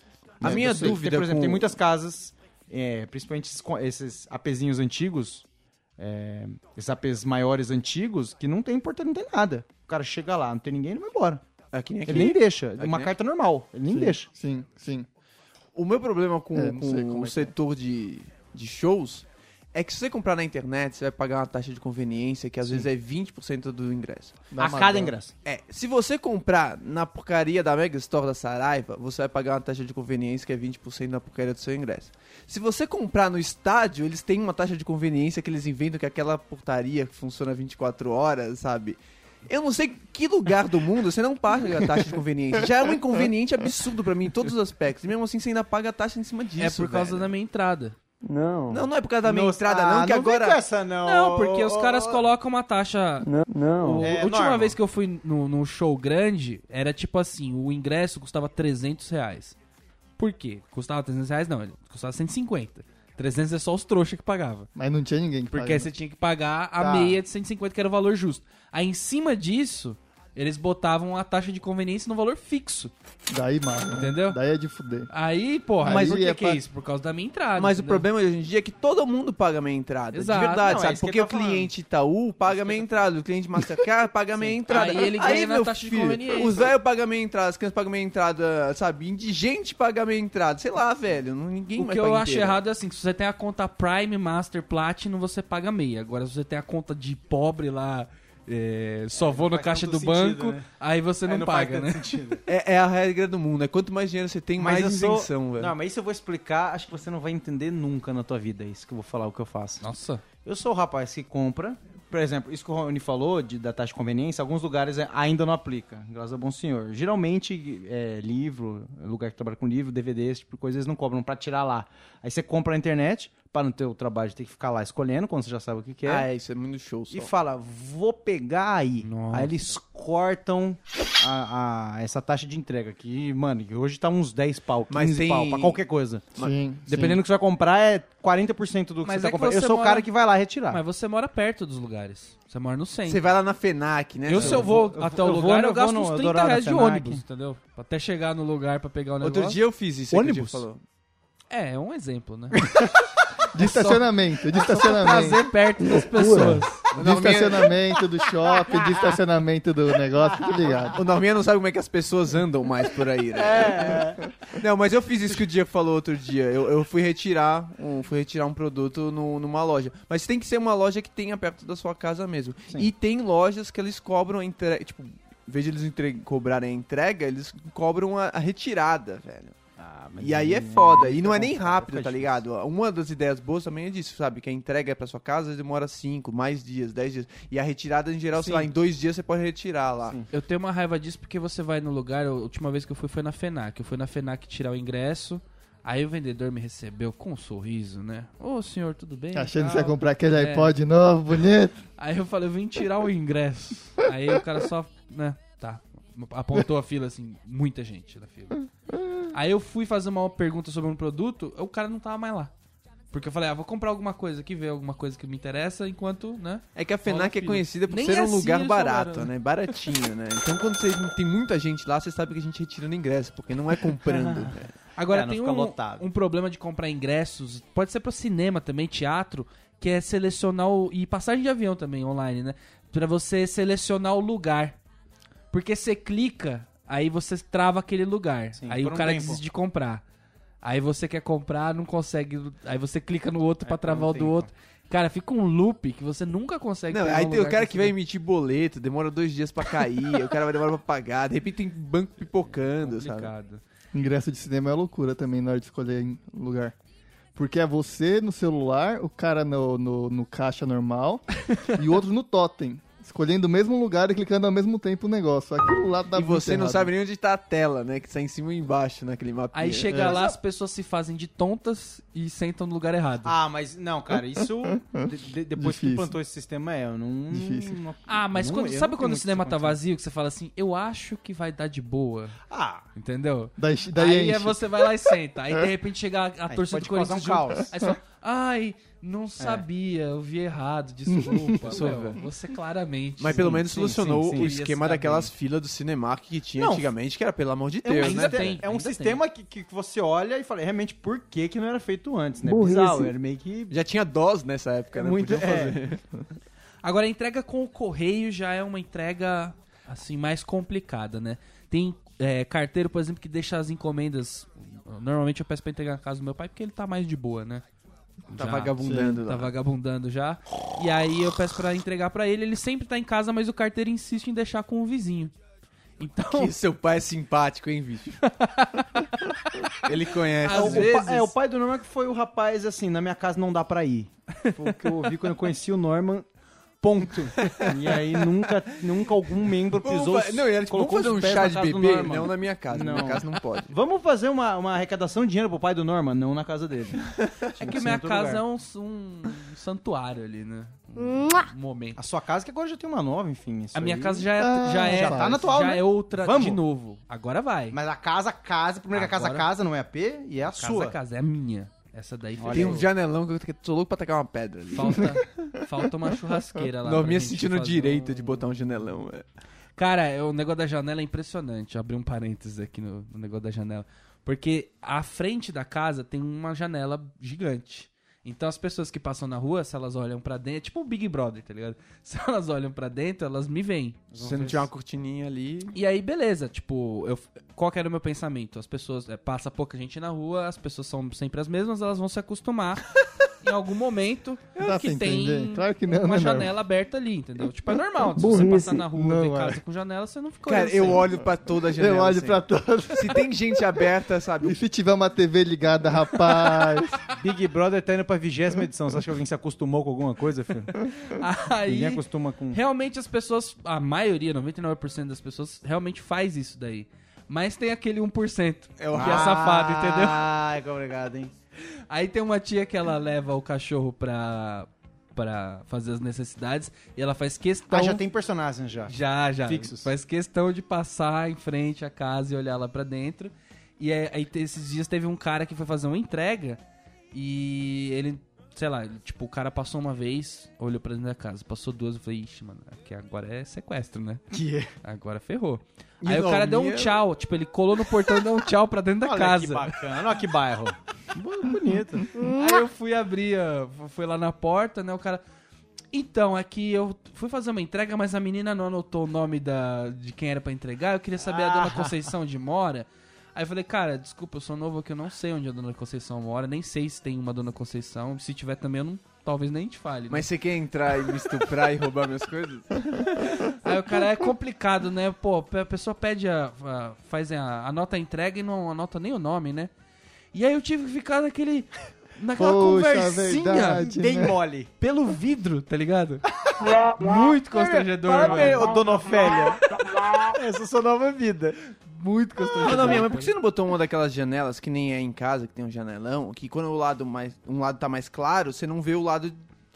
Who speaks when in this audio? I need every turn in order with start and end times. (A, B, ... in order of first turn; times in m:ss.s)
0:00.4-0:05.4 A
0:00.4-0:01.8 B
0:00.4-0:01.0 C
0:06.0-0:11.4 A
0:11.7-0:13.1 B
0:12.1-0:14.3 A
0:13.9-0:15.1 C
0:15.8-0:24.5 B
0:16.5-0:17.5 C
0:24.5-0:25.2 C
0:24.6-0:25.3 A
0:25.4-0:47.3 B
0:46.6-0:48.0 D
0:48.2-0:48.9 E
0:48.7-0:50.6 B
0:49.2-0:52.3 A
0:51.0-0:53.3 D
0:53.2-0:54.2 E
0:53.8-0:59.6 D
0:54.0-0:54.8 A
1:00.2-1:04.7 D
1:04.8-1:05.9 C
1:05.5-1:12.9 D
1:06.8-1:07.2 A
1:13.3-1:15.1 C
1:13.9-1:14.4 D
1:15.1-1:18.1 D
1:15.8-1:16.6 C
1:15.9-1:16.4 A
1:17.6-1:32.6 B
1:20.1-1:20.8 D
1:20.6-1:21.7 A
1:22.5-1:22.8 A
1:24.4-1:24.9 A
1:24.7-1:26.7 D
1:31.8-1:42.2 D
1:39.2-1:40.7 A
1:41.2-1:42.4 A
1:42.5-1:45.8 B
1:44.6-1:49.8 A
1:49.8-1:50.2 D
1:50.4-2:06.3 A
2:06.0-2:07.3 B
2:07.1-2:16.3 A
2:09.0-2:09.6 D
2:14.9-2:15.8 B
2:16.4-2:17.2 C
2:16.9-2:20.8 A
2:19.0-2:20.1 D
2:20.7-2:23.3 D
2:23.1-2:24.7 B
2:24.3-2:29.6 D
2:24.3-2:27.2 A
2:29.2-2:30.8 B
2:30.1-2:30.6 A
2:31.5-2:32.7 D
2:33.5-2:35.5 C
2:33.6-2:36.9 D
2:35.8-2:36.8 E
2:36.9-2:37.7 B
2:36.9-2:41.0 C
2:38.4-2:39.1 A
2:40.4-2:40.8 A
2:40.9-2:59.6 B
2:43.4-2:44.2 A
2:59.8-3:02.4 A
3:00.2-3:10.2 B
3:08.4-3:08.7 A
3:10.3-3:20.8 D
3:19.3-3:21.8 C
3:22.0-3:28.6 D
3:29.3-3:32.5 D
3:33.1-3:39.3 D
3:36.8-3:44.7 B
3:45.0-3:54.8 D
3:45.1-3:46.1 A
3:55.5-4:00.0 D
3:58.6-3:59.4 A
4:00.6-4:08.0 D
4:03.6-4:04.5 A
4:06.9-4:13.3 B
4:12.7-4:13.6 D
4:13.9-4:16.8 C
4:17.4-4:26.9 C
4:26.1-4:30.2 B
4:29.5-4:33.4 D
4:29.9-4:30.4 A
4:33.2-4:39.8 A
4:34.4-4:36.2 C
4:37.3-4:37.8 C
4:38.1-4:42.4 D
4:42.5-4:42.9 A
4:43.0-4:53.7 D
4:43.6-4:44.9 C
4:46.5-4:47.8 A
4:49.4-4:49.6 A
4:51.4-4:51.9 A
4:51.6-4:52.2 B
4:53.2-4:58.6 B
4:53.3-4:54.6 A
4:54.3-4:55.3 D
4:56.6-4:56.9 A
4:57.8-5:03.7 A
4:58.0-4:59.2 D
5:02.4-5:03.1 E
5:03.7-5:06.0 B
5:05.0-5:05.8 A
5:06.8-5:17.6 D
5:18.3-5:25.3 D
5:18.4-5:19.5 B
5:18.8-5:19.2 C
5:26.0-5:26.5 D
5:26.3-5:28.2 B
5:28.2-5:29.8 D
5:29.8-5:30.9 B
5:30.4-5:31.3 D
5:30.5-5:36.3 A
5:34.4-5:34.9 D
5:36.8-5:48.4 A
5:37.4-5:38.0 B
5:39.7-5:43.8 B
5:47.6-5:52.0 D
5:52.0-5:56.6 A
5:53.7-5:57.8 D
5:54.4-5:55.5 C
5:57.7-6:01.0 A
5:58.9-5:59.5 D
6:00.5-6:02.9 D
6:02.4-6:02.9 A
6:02.5-6:05.3 B
6:04.7-6:08.4 D
6:06.8-6:09.2 B
6:09.8-6:24.0 D
6:24.1-6:24.7 A
6:24.2-6:25.8 B
6:25.7-6:41.1 D
6:34.6-6:36.5 C
6:38.2-6:38.8 E
6:38.8-6:39.6 C
6:40.5-6:44.6 B
6:41.8-6:43.3 C
6:44.4-6:47.0 C
6:47.1-6:50.8 A
6:50.8-7:00.3 D
6:51.7-6:52.6 A
6:58.8-6:59.6 B
6:58.9-7:01.3 A
7:01.9-7:08.0 D
7:07.7-7:09.9 A
7:08.9-7:16.6 D
7:17.1-7:24.2 D
7:24.3-7:24.7 A
7:24.8-7:29.8 D
7:26.0-7:27.0 B
7:29.0-7:32.1 A
7:32.2-7:35.2 D
7:35.9-7:50.3 D
7:41.2-7:42.0 A
7:50.1-7:53.5 B
7:53.5-7:59.7 D
8:00.3-8:03.8 D
8:02.3-8:04.4 C
8:03.7-8:04.7 A
8:04.8-8:06.2 D
8:06.5-8:09.6 A
8:06.8-8:08.7 D
8:10.2-8:11.6 A
8:11.8-8:13.3 D
8:12.6-8:13.0 A
8:12.6-8:19.4 B